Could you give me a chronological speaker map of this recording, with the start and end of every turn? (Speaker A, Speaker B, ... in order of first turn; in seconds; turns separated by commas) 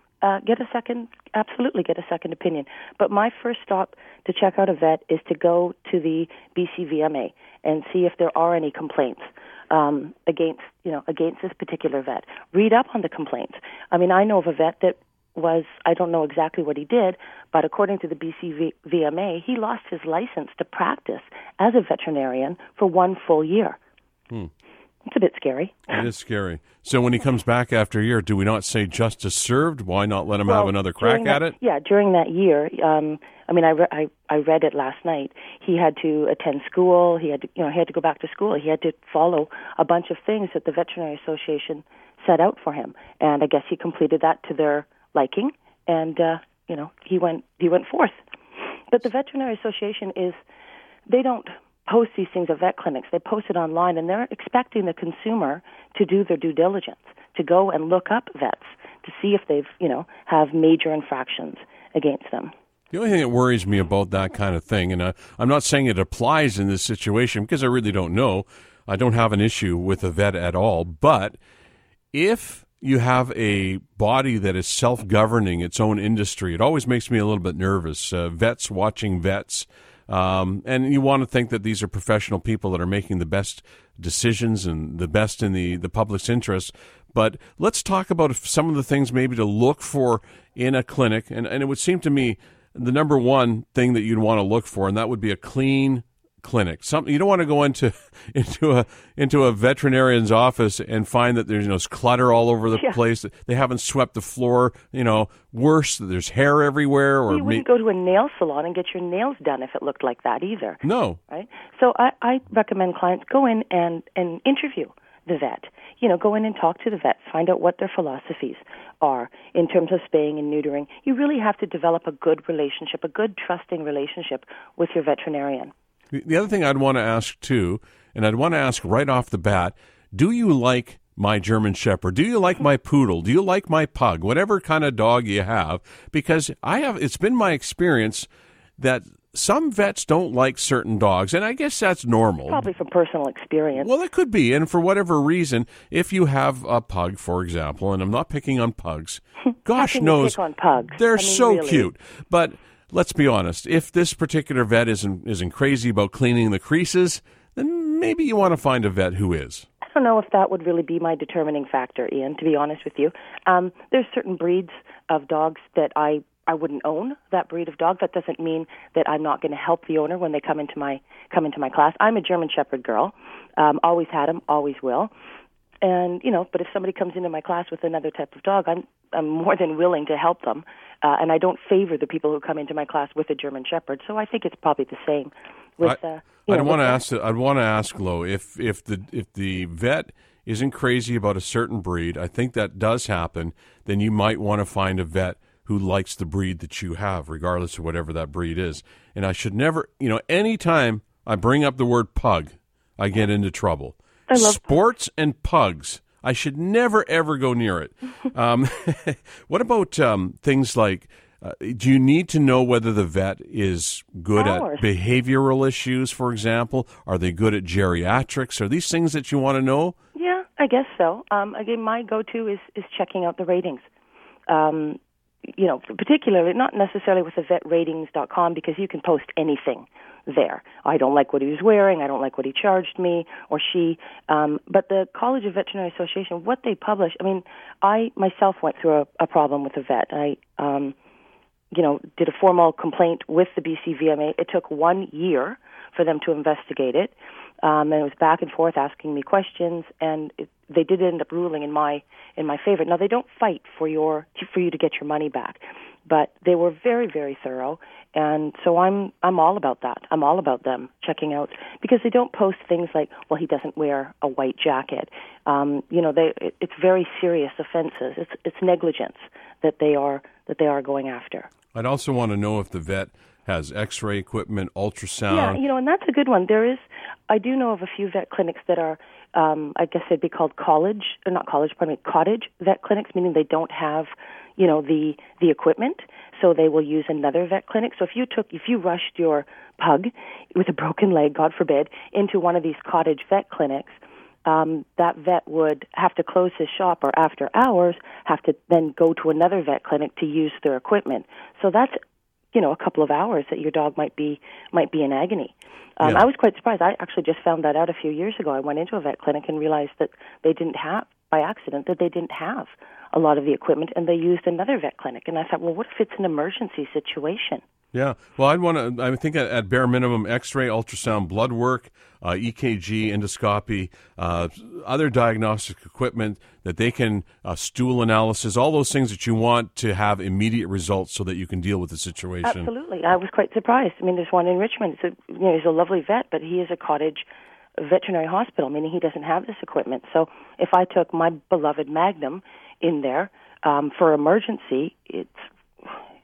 Speaker A: 0.2-23.8, Speaker A: 25.1-26.0, Speaker B: 25.9-31.6, Speaker A: 30.4-48.2, Speaker A: 48.9-50.4, Speaker A: 51.1-62.5, Speaker B: 62.9-71.4, Speaker B: 72.1-107.6, Speaker A: 107.3-125.7, Speaker B: 110.8-111.2, Speaker B: 126.1-138.3, Speaker B: 138.8-142.7, Speaker A: 142.5-143.9, Speaker B: 143.8-150.4, Speaker A: 149.8-151.9, Speaker B: 150.9-159.7, Speaker A: 159.8-175.1, Speaker A: 175.8-187.0, Speaker B: 185.8-219.9, Speaker A: 204.3-204.6, Speaker A: 214.3-214.9, Speaker A: 220.2-223.8, Speaker A: 224.5-241.0, Speaker A: 241.7-271.5, Speaker B: 271.7-275.6, Speaker A: 275.3-302.0, Speaker A: 302.5-317.6, Speaker B: 317.9-332.7, Speaker A: 332.4-337.3, Speaker A: 337.8-346.0